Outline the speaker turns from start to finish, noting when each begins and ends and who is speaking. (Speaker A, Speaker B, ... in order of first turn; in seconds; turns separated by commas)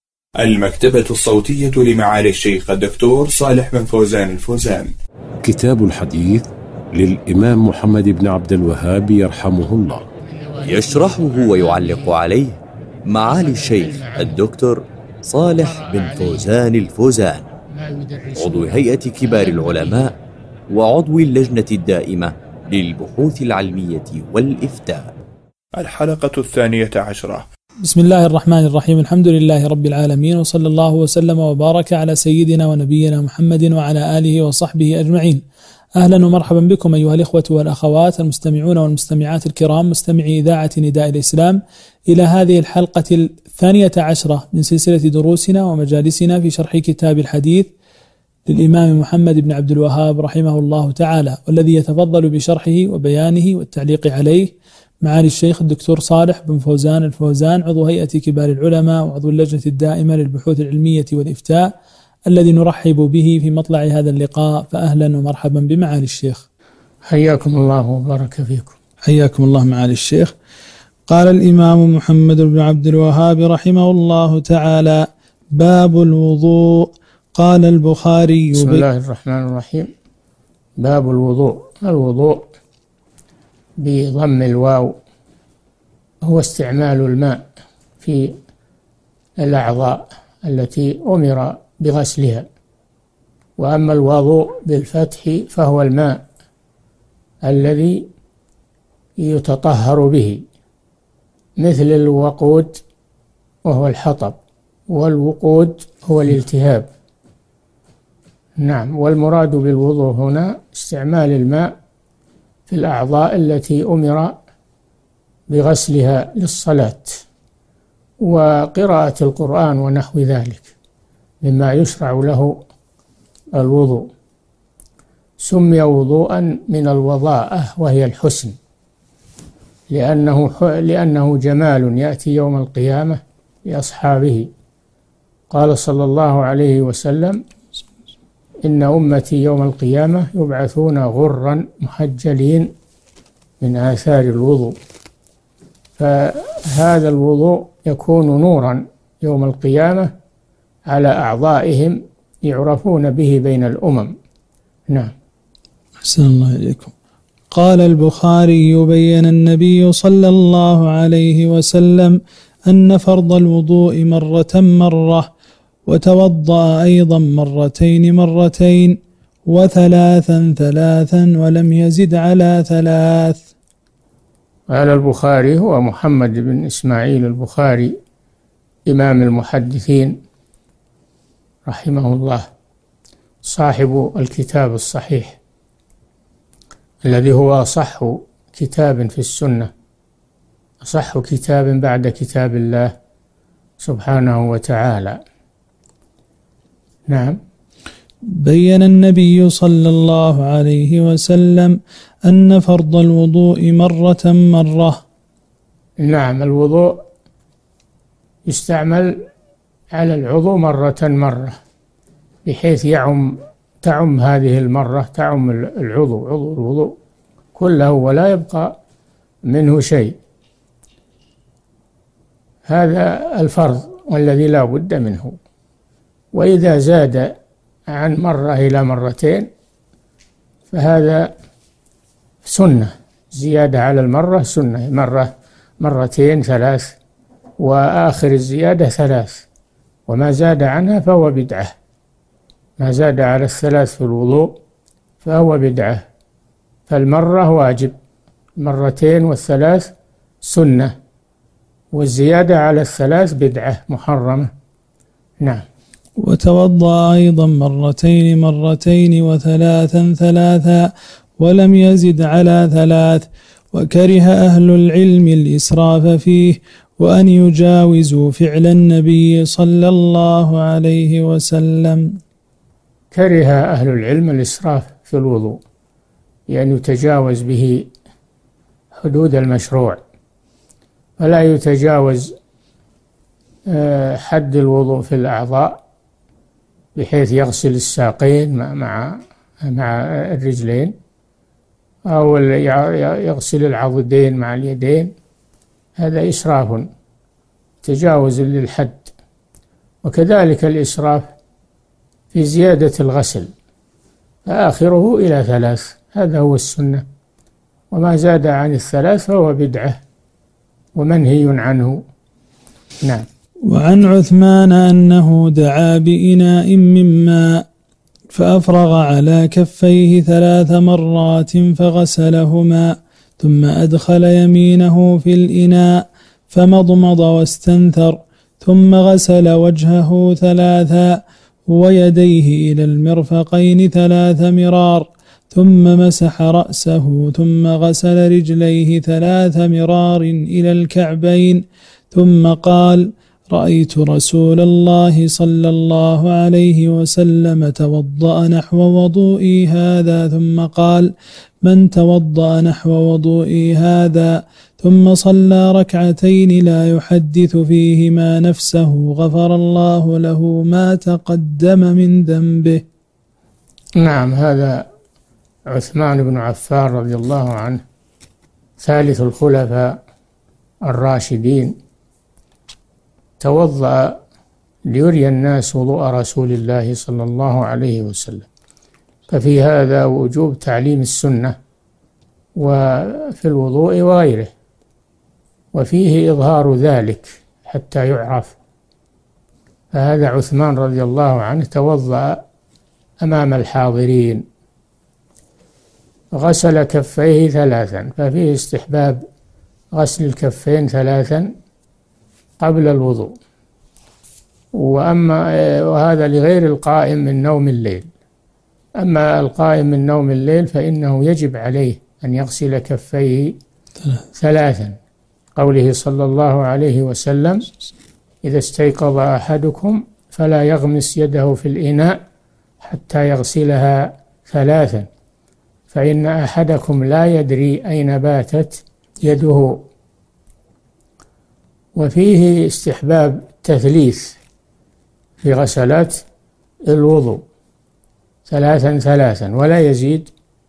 Speaker A: 0.4-4.9, Speaker B: 5.4-10.1, Speaker C: 10.3-12.2, Speaker D: 10.7-17.4, Speaker C: 13.3-14.4, Speaker C: 15.5-16.6, Speaker C: 17.7-20.1, Speaker D: 18.4-20.1, Speaker D: 20.7-25.1, Speaker A: 25.8-27.4, Speaker E: 27.8-35.4, Speaker E: 36.0-47.7, Speaker E: 48.5-61.7, Speaker E: 62.3-66.4, Speaker C: 67.1-68.8, Speaker E: 69.0-70.3, Speaker E: 71.1-78.8, Speaker C: 78.5-79.9, Speaker C: 80.8-82.5, Speaker C: 83.8-85.0, Speaker C: 86.2-87.4, Speaker C: 88.0-88.3, Speaker C: 89.4-92.5, Speaker C: 93.6-96.2, Speaker C: 97.5-98.0, Speaker C: 99.2-100.4, Speaker C: 101.6-102.8, Speaker C: 103.7-104.4, Speaker C: 104.9-106.9, Speaker C: 108.6-111.7, Speaker C: 112.7-114.3, Speaker C: 115.5-117.2, Speaker C: 118.2-120.7, Speaker C: 121.4-122.6, Speaker C: 123.6-124.1, Speaker C: 125.4-128.6, Speaker C: 129.9-134.5, Speaker C: 135.5-137.4, Speaker C: 138.7-142.7, Speaker C: 143.6-144.8, Speaker C: 146.0-150.1, Speaker C: 150.9-154.1, Speaker E: 156.0-156.9, Speaker E: 157.5-162.2, Speaker E: 162.7-165.3, Speaker E: 165.9-168.9, Speaker E: 169.5-173.5, Speaker C: 174.7-177.9, Speaker C: 178.9-180.2, Speaker C: 181.7-182.5, Speaker C: 183.4-185.4, Speaker C: 187.0-189.7, Speaker C: 190.8-192.9, Speaker C: 193.8-195.2, Speaker C: 197.1-197.4, Speaker E: 198.4-201.8, Speaker E: 202.3-205.0, Speaker C: 206.0-207.0, Speaker C: 208.5-209.2, Speaker C: 209.9-211.6, Speaker C: 212.5-216.9, Speaker C: 217.6-218.7, Speaker C: 219.5-220.1, Speaker C: 222.7-225.3, Speaker C: 226.3-227.3, Speaker C: 227.9-229.5, Speaker C: 230.7-231.3, Speaker C: 232.4-235.3, Speaker C: 235.8-236.9, Speaker C: 237.6-239.4, Speaker C: 240.1-241.7, Speaker C: 242.8-244.5, Speaker C: 245.2-246.0, Speaker C: 246.9-247.9, Speaker C: 248.6-249.9, Speaker C: 250.4-250.9, Speaker C: 251.9-254.5, Speaker E: 256.2-272.0, Speaker C: 273.1-275.6, Speaker C: 276.5-277.9, Speaker C: 279.0-280.0, Speaker C: 281.2-282.3, Speaker C: 283.7-285.8, Speaker C: 287.0-290.9, Speaker C: 292.1-295.1, Speaker C: 296.0-296.9, Speaker C: 297.8-299.1, Speaker C: 300.0-301.3, Speaker C: 302.3-303.5, Speaker C: 304.5-307.0, Speaker C: 307.9-310.0, Speaker C: 311.0-312.0, Speaker E: 313.7-317.6, Speaker E: 318.3-341.6, Speaker E: 342.1-351.1, Speaker E: 351.6-362.8, Speaker C: 364.0-364.9, Speaker C: 365.7-367.8, Speaker C: 368.8-370.0, Speaker C: 370.9-371.7, Speaker C: 373.4-374.1, Speaker C: 374.9-378.5, Speaker C: 379.3-381.6, Speaker C: 382.6-384.5, Speaker C: 385.7-388.6, Speaker C: 389.9-392.4, Speaker C: 393.2-394.4, Speaker C: 396.4-399.2, Speaker C: 399.9-401.5, Speaker C: 402.6-403.3, Speaker C: 404.8-408.1, Speaker C: 409.0-413.6, Speaker C: 414.4-415.0, Speaker C: 415.6-417.6, Speaker C: 418.4-422.2, Speaker C: 422.8-425.1, Speaker C: 425.9-429.8, Speaker C: 432.0-434.4, Speaker C: 435.4-436.2, Speaker C: 436.9-437.4, Speaker C: 438.5-440.3